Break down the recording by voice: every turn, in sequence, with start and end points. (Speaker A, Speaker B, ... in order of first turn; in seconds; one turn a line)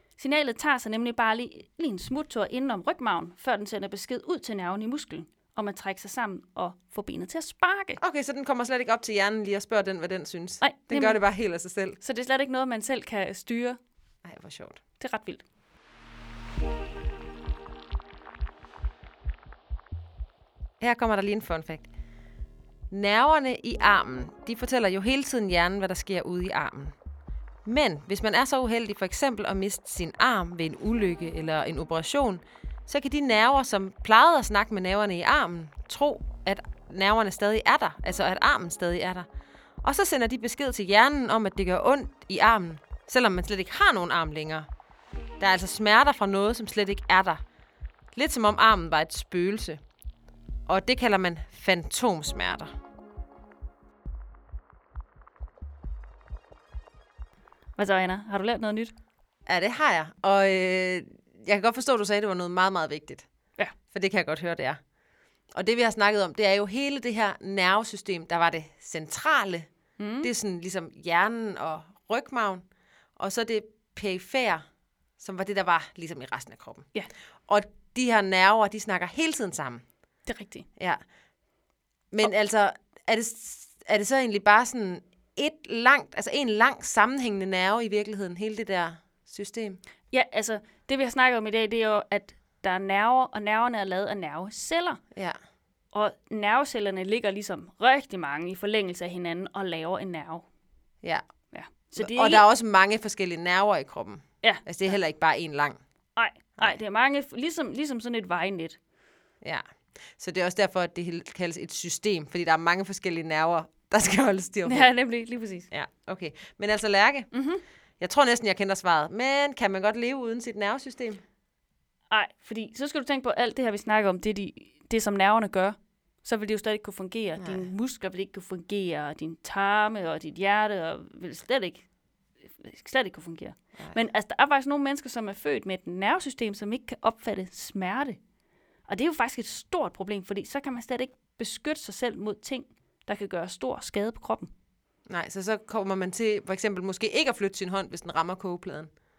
Speaker A: 0.2-8.0
Speaker B: 8.0-12.0
Speaker A: 10.6-11.2
Speaker A: 12.0-13.8
Speaker B: 14.2-14.8
Speaker A: 15.0-15.4
Speaker B: 20.8-21.9
Speaker B: 22.9-26.9
Speaker B: 27.6-39.3
Speaker B: 39.8-44.7
Speaker B: 45.4-47.4
Speaker B: 48.1-49.8
Speaker B: 50.7-52.7
Speaker A: 57.8-58.9
Speaker B: 59.5-63.2
Speaker B: 63.9-64.8
Speaker B: 65.5-69.7
Speaker A: 70.0-70.3
Speaker B: 70.2-72.6
Speaker B: 73.2-74.6
Speaker B: 75.2-76.9
Speaker B: 77.5-79.8
Speaker A: 80.2-80.7
Speaker B: 82.1-89.8
Speaker A: 90.1-95.0
Speaker A: 95.9-100.4
Speaker A: 101.5-102.5
Speaker B: 102.0-105.8
Speaker A: 104.4-104.9
Speaker A: 106.2-108.8
Speaker B: 109.4-114.9
Speaker A: 114.6-115.7
Speaker B: 115.7-117.3
Speaker A: 117.3-117.6
Speaker B: 118.0-121.2
Speaker A: 122.1-131.9
Speaker B: 127.4-127.7
Speaker A: 132.6-138.2
Speaker A: 138.9-144.5
Speaker B: 145.1-148.9